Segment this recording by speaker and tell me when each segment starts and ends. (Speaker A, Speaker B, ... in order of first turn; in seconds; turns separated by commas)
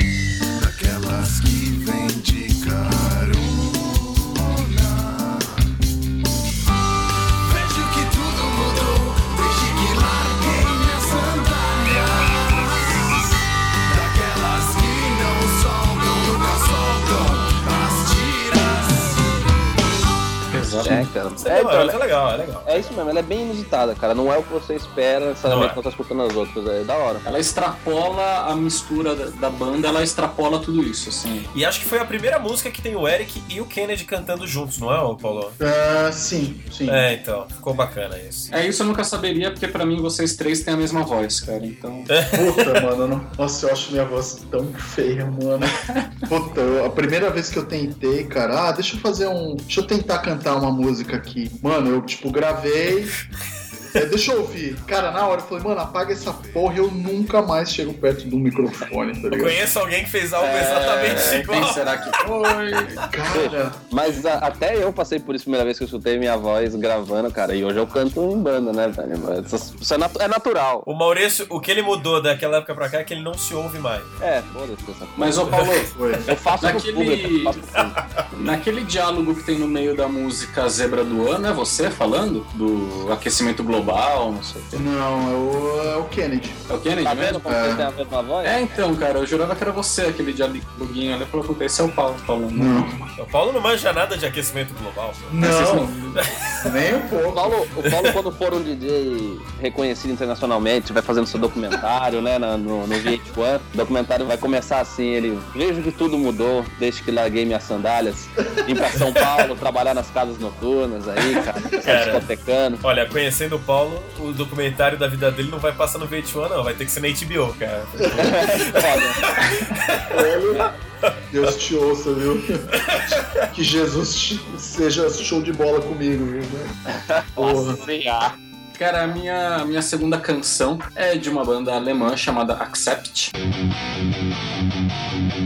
Speaker A: 0.6-5.4, Speaker A: 7.5-12.4, Speaker A: 13.9-18.7, Speaker B: 20.5-21.1, Speaker C: 20.8-22.0, Speaker D: 21.4-22.9, Speaker C: 22.7-27.2, Speaker D: 25.4-25.8, Speaker B: 27.2-31.5, Speaker D: 31.5-35.6, Speaker E: 35.6-37.1, Speaker D: 36.9-38.5, Speaker B: 38.5-42.1, Speaker D: 42.1-42.7, Speaker E: 42.3-53.1, Speaker E: 54.0-59.6, Speaker D: 59.3-61.8, Speaker C: 60.4-60.9, Speaker B: 60.4-63.0, Speaker E: 63.1-63.8, Speaker C: 63.3-70.9, Speaker D: 70.9-74.1, Speaker C: 74.2-75.6, Speaker B: 75.2-75.9, Speaker D: 75.5-75.8, Speaker E: 75.8-76.3, Speaker C: 76.3-78.0, Speaker B: 76.6-77.6, Speaker B: 78.3-84.8, Speaker E: 84.7-86.6, Speaker B: 86.7-87.5, Speaker C: 87.0-88.6, Speaker E: 87.5-87.9, Speaker B: 88.4-93.0, Speaker E: 92.5-93.0, Speaker D: 93.2-95.6, Speaker E: 95.3-97.6, Speaker B: 95.4-95.8, Speaker D: 96.2-96.5, Speaker C: 97.3-112.8, Speaker D: 111.8-112.3, Speaker D: 112.8-120.2, Speaker E: 118.0-118.5, Speaker C: 118.2-119.2, Speaker E: 120.1-120.7, Speaker E: 121.3-122.7, Speaker D: 122.7-123.5, Speaker E: 123.5-126.8, Speaker C: 126.9-128.3, Speaker E: 127.4-127.8, Speaker B: 128.8-133.3